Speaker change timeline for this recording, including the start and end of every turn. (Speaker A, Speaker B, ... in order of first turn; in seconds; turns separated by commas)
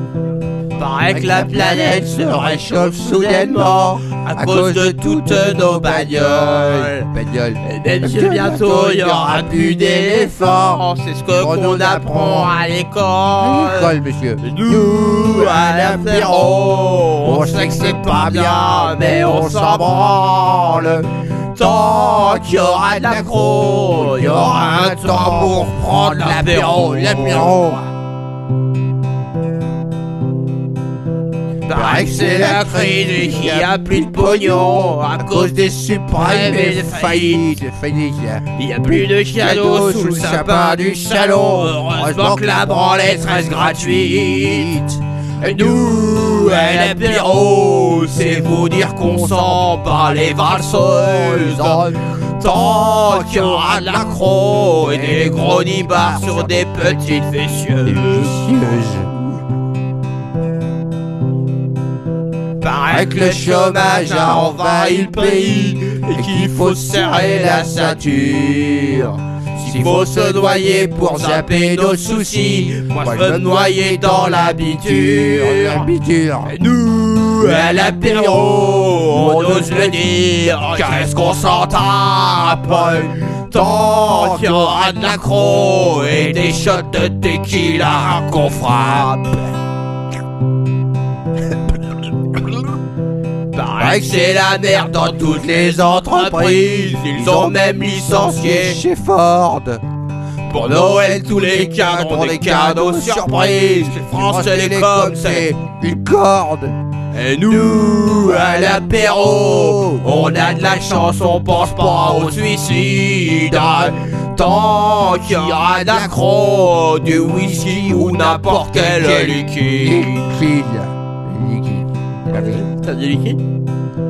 Speaker A: 0.8-27.8, Speaker A: 31.7-59.1, Speaker A: 62.6-89.5, Speaker A: 93.5-99.8, Speaker A: 100.5-123.4